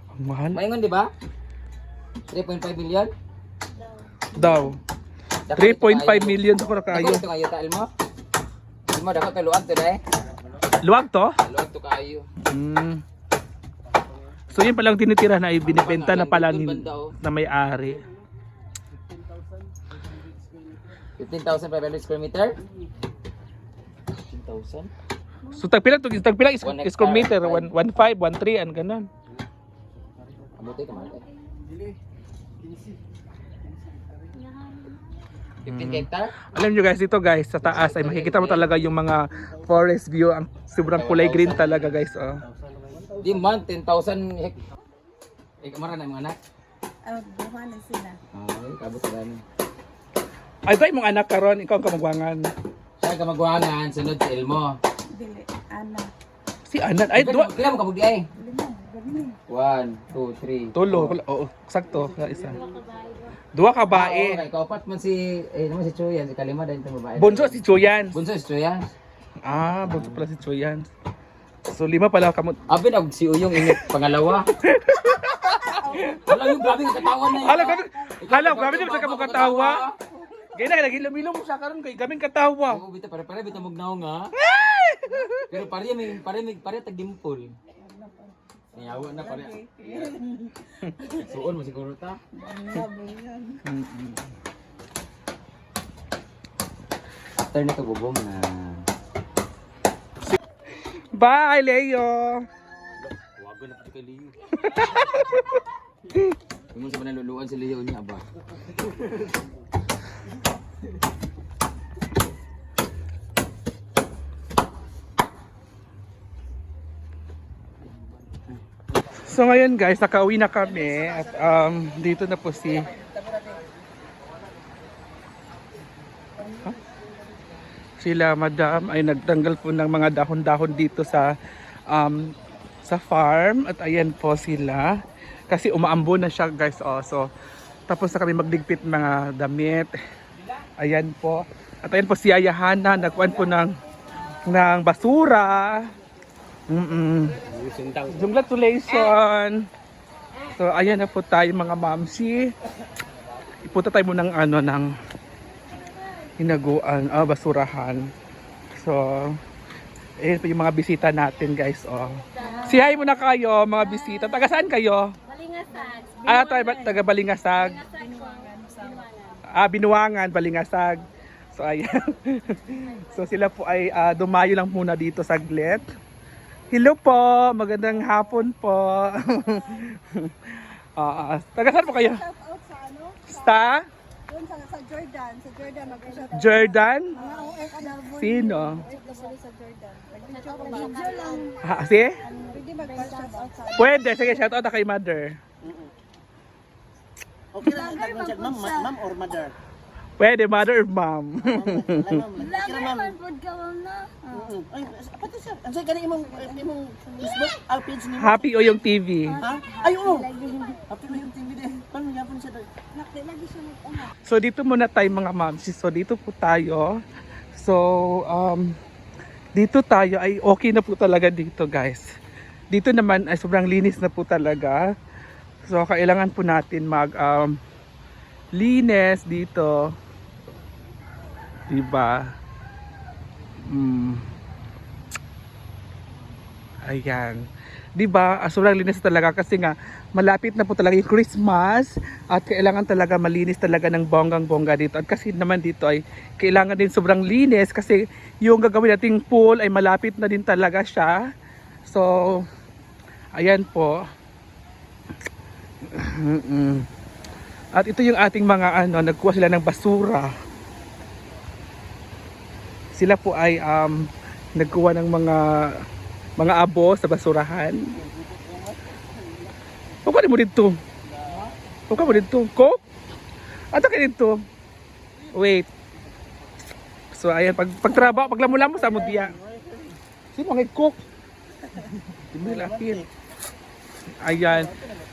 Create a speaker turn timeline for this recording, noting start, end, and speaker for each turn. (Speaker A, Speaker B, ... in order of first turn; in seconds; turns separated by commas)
Speaker A: 0.2-0.6, Speaker B: 0.5-1.1, Speaker B: 2.3-3.1, Speaker A: 4.3-4.8, Speaker B: 4.4-4.7, Speaker B: 5.5-7.9, Speaker A: 5.5-7.2, Speaker B: 8.9-10.0, Speaker A: 10.8-11.4, Speaker B: 11.4-12.3, Speaker A: 12.4-13.0, Speaker A: 14.5-18.0, Speaker B: 15.6-17.1, Speaker B: 21.2-22.6, Speaker B: 24.3-24.9, Speaker A: 25.5-29.1, Speaker B: 26.6-27.7, Speaker B: 30.6-31.2, Speaker B: 35.6-36.4, Speaker A: 35.7-42.4, Speaker B: 37.6-38.9, Speaker B: 40.9-42.0, Speaker C: 42.6-43.3, Speaker B: 43.2-44.6, Speaker B: 45.6-46.4, Speaker D: 47.1-48.2, Speaker B: 48.3-49.4, Speaker A: 50.7-52.5, Speaker B: 53.0-54.8, Speaker D: 55.1-56.1, Speaker A: 56.7-57.5, Speaker B: 57.1-58.3, Speaker D: 58.4-59.4, Speaker B: 59.5-61.2, Speaker A: 60.8-62.6, Speaker E: 62.7-63.3, Speaker A: 63.5-64.4, Speaker B: 63.9-68.8, Speaker A: 67.2-68.2, Speaker A: 69.4-70.9, Speaker B: 69.8-70.2, Speaker A: 71.7-72.6, Speaker B: 72.7-74.5, Speaker A: 73.6-73.8, Speaker A: 74.6-79.8, Speaker D: 75.7-76.4, Speaker B: 76.1-80.0, Speaker D: 77.4-78.1, Speaker A: 80.5-82.8, Speaker B: 82.7-84.3, Speaker A: 84.4-85.5, Speaker B: 85.5-87.5, Speaker D: 87.8-88.3, Speaker B: 88.7-90.3, Speaker D: 89.1-90.6, Speaker B: 91.0-92.2, Speaker D: 92.4-93.6, Speaker A: 93.6-94.2, Speaker B: 97.5-98.8, Speaker A: 101.1-102.4, Speaker B: 103.0-105.0, Speaker A: 104.6-105.4, Speaker B: 106.7-108.2, Speaker A: 119.2-122.9, Speaker A: 128.0-131.3, Speaker A: 131.9-132.3, Speaker A: 132.9-134.9, Speaker A: 135.5-137.3, Speaker A: 137.9-139.9, Speaker A: 140.8-143.8, Speaker A: 144.5-145.9, Speaker A: 146.7-147.4, Speaker B: 147.6-148.1, Speaker A: 148.1-149.6, Speaker A: 150.6-152.5, Speaker A: 153.6-154.9, Speaker A: 156.4-158.1, Speaker A: 158.8-159.4, Speaker A: 160.2-165.1, Speaker D: 162.4-162.9, Speaker E: 165.3-166.2, Speaker D: 165.7-167.1, Speaker A: 166.2-167.9, Speaker D: 167.9-169.3, Speaker E: 167.9-169.3, Speaker A: 169.5-171.0, Speaker A: 171.6-175.9, Speaker A: 176.7-182.2, Speaker D: 181.8-183.3, Speaker A: 183.2-183.9, Speaker D: 184.3-191.6, Speaker A: 186.3-187.2, Speaker A: 188.1-188.9, Speaker E: 190.3-191.4, Speaker A: 191.6-192.2, Speaker D: 192.2-194.4, Speaker E: 192.7-193.5, Speaker A: 193.8-195.4, Speaker C: 197.6-199.5, Speaker D: 197.6-198.9, Speaker A: 200.2-202.2, Speaker C: 201.5-203.1, Speaker D: 202.3-204.5, Speaker C: 204.4-208.4, Speaker D: 206.1-207.6, Speaker A: 208.2-209.4, Speaker D: 209.3-211.3, Speaker C: 209.4-210.3, Speaker C: 210.9-212.7, Speaker D: 212.9-214.1, Speaker A: 214.1-217.0, Speaker A: 217.5-218.8, Speaker A: 219.6-222.1, Speaker A: 222.7-224.8, Speaker A: 225.7-227.6, Speaker A: 228.6-229.9, Speaker A: 231.7-232.3, Speaker A: 233.7-234.2, Speaker A: 236.9-237.4, Speaker A: 237.9-251.2, Speaker A: 251.9-252.5, Speaker A: 253.4-254.0, Speaker A: 255.9-256.9, Speaker A: 257.7-260.3, Speaker A: 262.9-265.8, Speaker A: 266.4-268.0, Speaker C: 268.2-268.8, Speaker A: 270.1-270.8, Speaker A: 271.9-272.8, Speaker A: 273.7-274.4, Speaker A: 275.3-275.7, Speaker A: 277.1-279.4, Speaker C: 278.4-279.9, Speaker A: 280.3-281.0, Speaker A: 282.3-283.0, Speaker C: 282.4-282.9, Speaker A: 284.2-284.7